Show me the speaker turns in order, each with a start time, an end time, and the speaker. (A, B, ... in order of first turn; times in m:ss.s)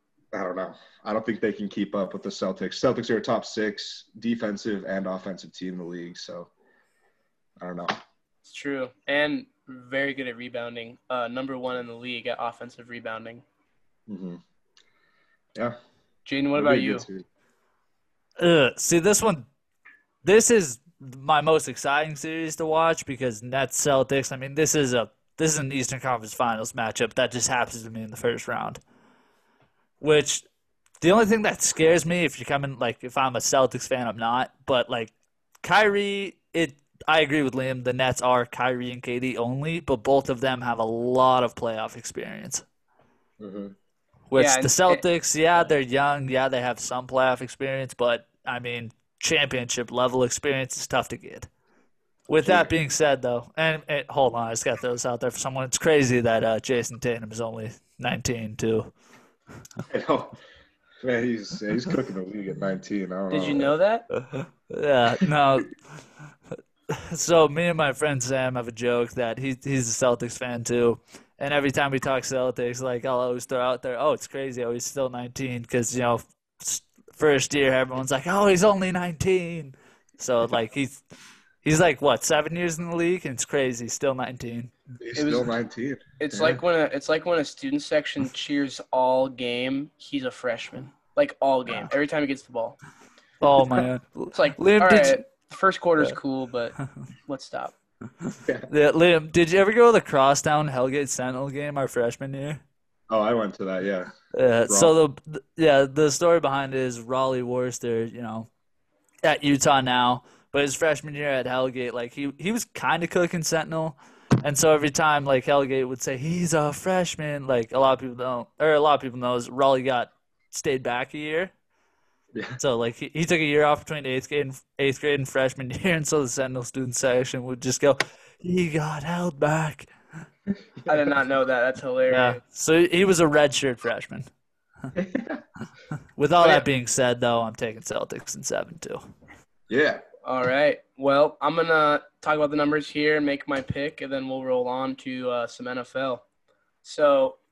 0:00.3-0:06.5 A
0:07.6-0:08.0 A
0:08.4-0:13.4 B
0:14.1-0:14.4 A
0:16.2-0:17.0 B
0:16.5-0:17.2 A
0:18.4-0:19.5 C
0:20.2-0:28.8 C
0:30.0-0:30.4 C
0:31.0-0:35.1 C
0:35.6-0:42.6 C
0:43.4-0:43.7 A
0:44.3-0:51.5 C
0:44.3-0:45.0 B
0:52.3-0:58.9 C
0:52.4-0:52.7 A
0:59.9-1:00.4 A
1:01.0-1:03.7 A
1:03.3-1:04.0 B
1:04.7-1:05.8 C
1:06.9-1:21.0 C
1:21.6-1:24.7 C
1:25.0-1:26.6 A
1:25.2-1:25.5 B
1:26.2-1:32.8 B
1:33.4-1:35.2 C
1:34.3-1:36.7 B
1:37.2-1:37.7 B
1:38.7-1:42.6 C
1:43.1-1:44.2 A
1:44.3-1:48.5 C
1:44.7-1:44.9 A
1:49.2-2:01.5 C
2:02.3-2:02.6 A
2:02.6-2:09.9 C
2:10.9-2:12.4 B
2:12.1-2:14.3 C
2:14.9-2:15.4 A
2:16.2-2:19.1 C
2:16.4-2:16.6 B
2:19.7-2:20.0 A
2:20.2-2:26.2 B
2:26.8-2:27.4 B